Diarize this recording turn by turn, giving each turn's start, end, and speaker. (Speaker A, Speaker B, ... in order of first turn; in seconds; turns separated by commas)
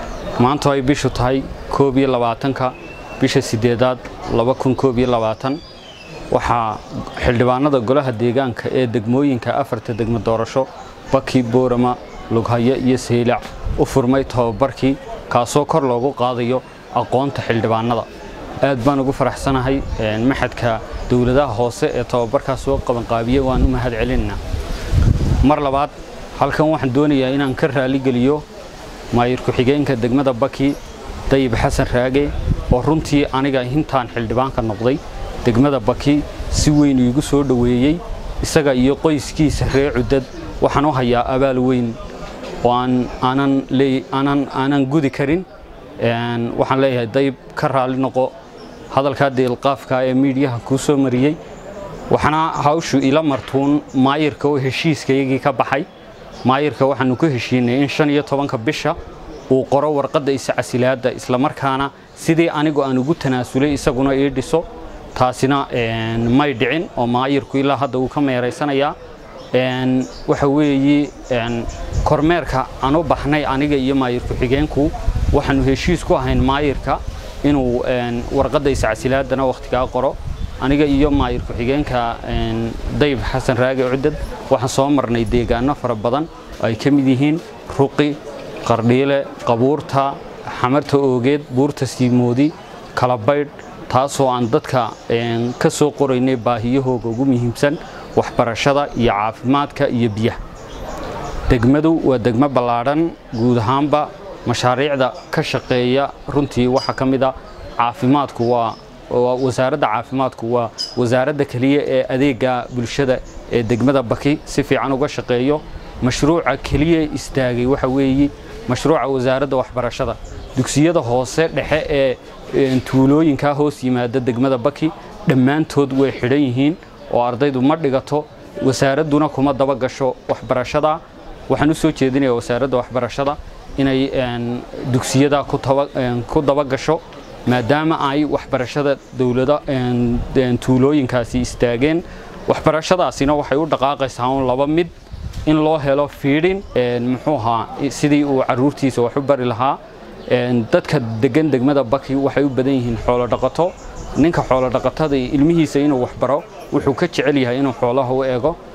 Speaker A: 0.4-5.6, Speaker A: 6.3-18.1, Speaker A: 18.6-24.4, Speaker A: 25.4-28.4, Speaker A: 29.1-42.0, Speaker A: 42.6-45.5, Speaker A: 46.0-48.3, Speaker A: 48.9-51.4, Speaker A: 52.1-55.9, Speaker A: 56.4-59.0, Speaker A: 59.5-69.0, Speaker A: 69.5-100.4, Speaker A: 101.5-144.9, Speaker A: 145.5-158.6